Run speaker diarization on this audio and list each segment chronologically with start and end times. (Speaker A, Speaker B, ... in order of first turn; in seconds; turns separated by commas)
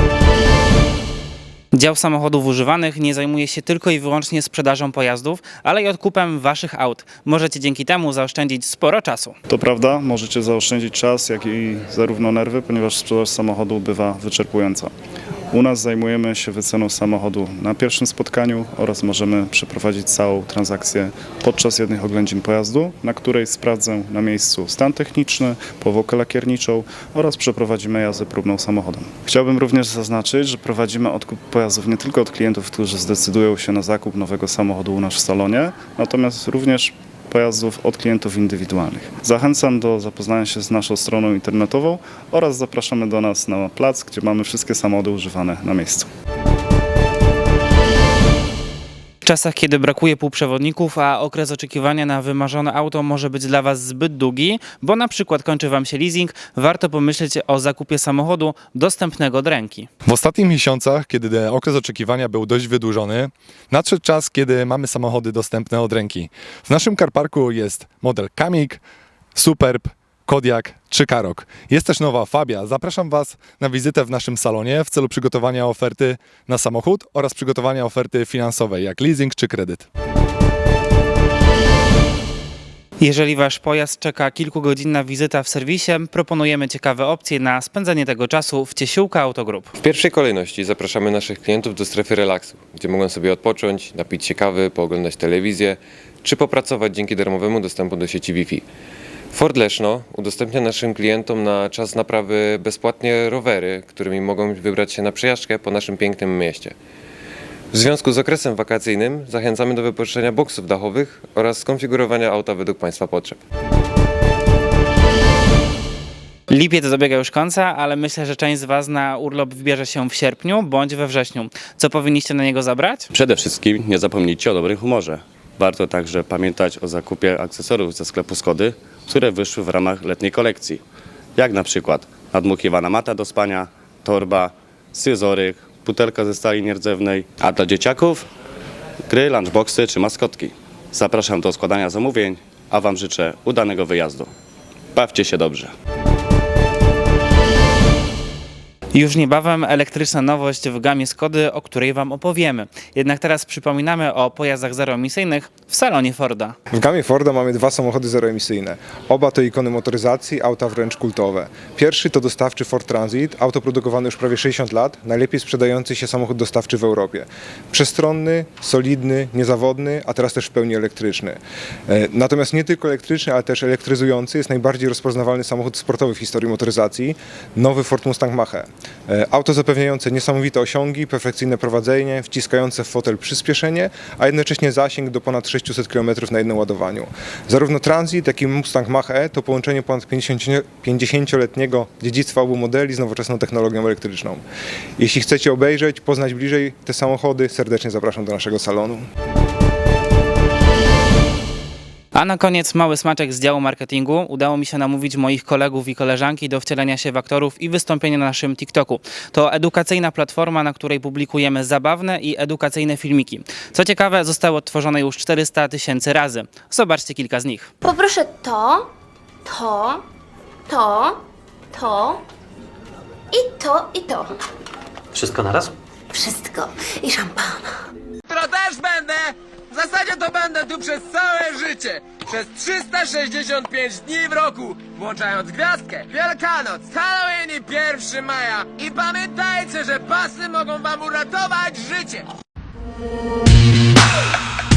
Speaker A: 1.7-9.3, Speaker B: 9.5-14.9, Speaker B: 15.5-46.1, Speaker A: 49.2-59.9, Speaker C: 60.0-68.8, Speaker C: 69.3-79.8, Speaker A: 83.0-89.7, Speaker D: 89.8-98.6, Speaker D: 99.3-106.7, Speaker D: 107.7-113.4, Speaker A: 116.5-123.1, Speaker E: 123.1-130.8, Speaker E: 131.4-138.2, Speaker E: 139.1-144.3, Speaker E: 144.9-145.7, Speaker A: 148.9-156.5, Speaker F: 156.7-194.4, Speaker F: 195.0-199.0, Speaker A: 202.1-217.7, Speaker G: 217.8-218.9, Speaker G: 219.4-220.0, Speaker G: 220.7-221.2, Speaker G: 221.7-222.2, Speaker G: 223.3-224.3, Speaker E: 225.2-225.7, Speaker G: 226.1-227.7, Speaker H: 228.3-242.2